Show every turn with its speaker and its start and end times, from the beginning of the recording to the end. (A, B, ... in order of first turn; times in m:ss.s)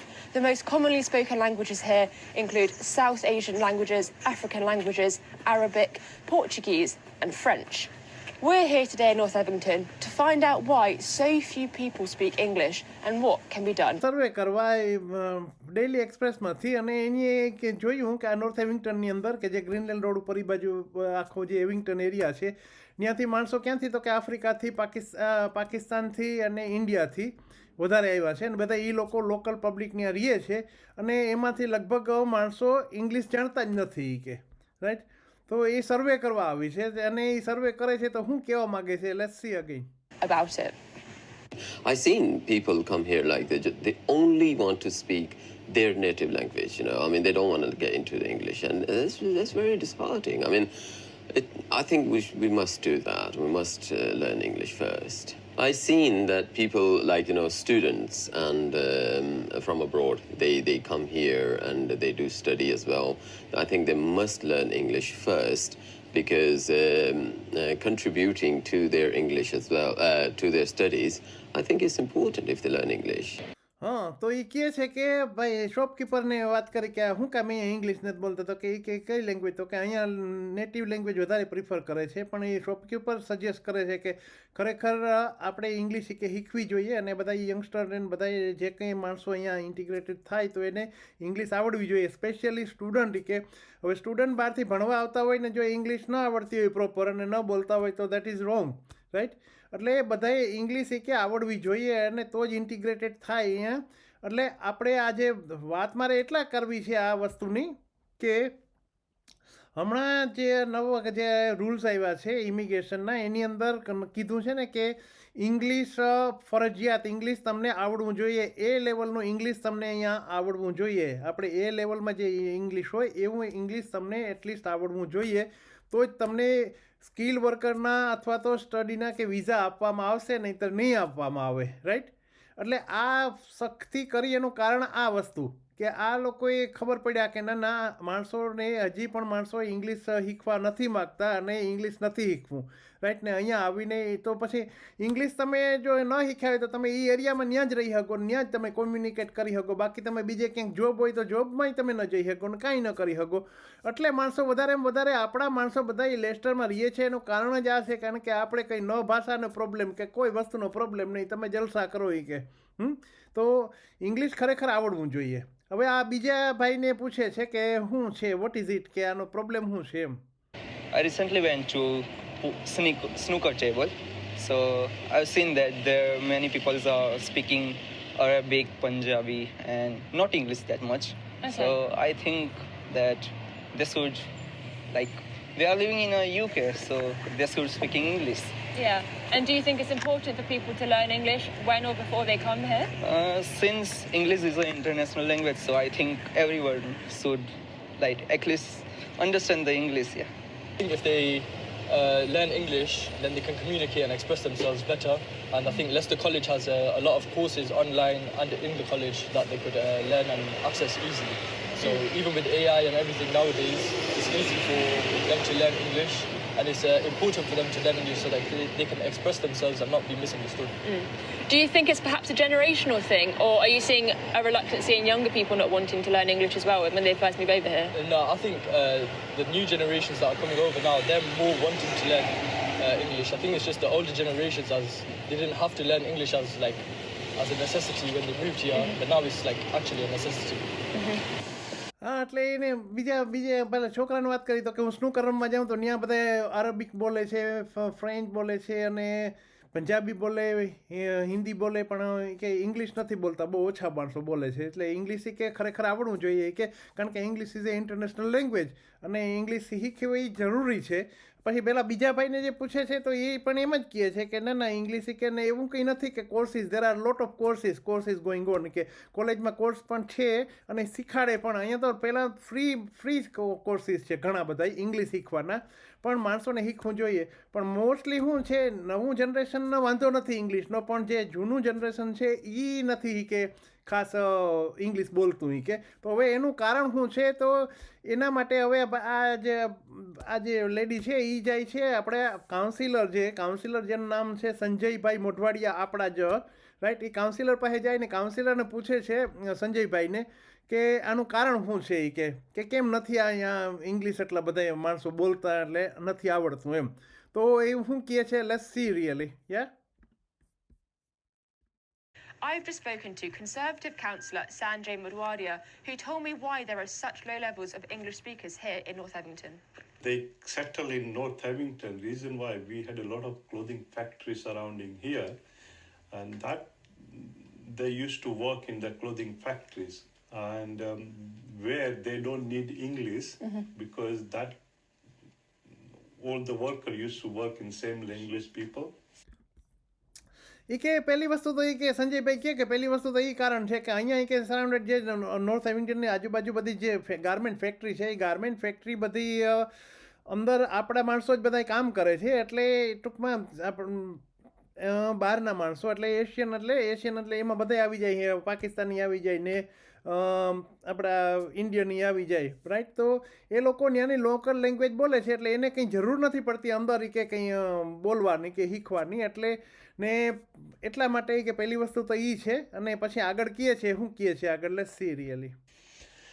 0:00.3-0:14.0 A
0:14.0-0:39.9 B
0:40.2-0:40.8 A
0:41.8-1:13.4 C
1:13.8-1:48.5 B
1:49.8-2:50.2 B
2:50.9-3:04.3 D
3:01.4-3:01.8 A
3:04.9-3:08.6 D
3:08.8-3:12.9 A
3:13.0-3:20.3 D
3:20.8-3:40.8 E
3:40.8-3:47.9 A
3:47.9-3:56.8 E
3:57.4-4:00.7 E
4:00.9-4:01.2 A
4:02.0-5:09.7 B
5:12.4-5:19.6 A
5:20.0-5:25.4 F
5:26.1-5:34.6 F
5:36.2-5:39.0 F
5:40.7-5:49.7 B
5:50.3-5:54.2 B
5:54.8-6:15.5 B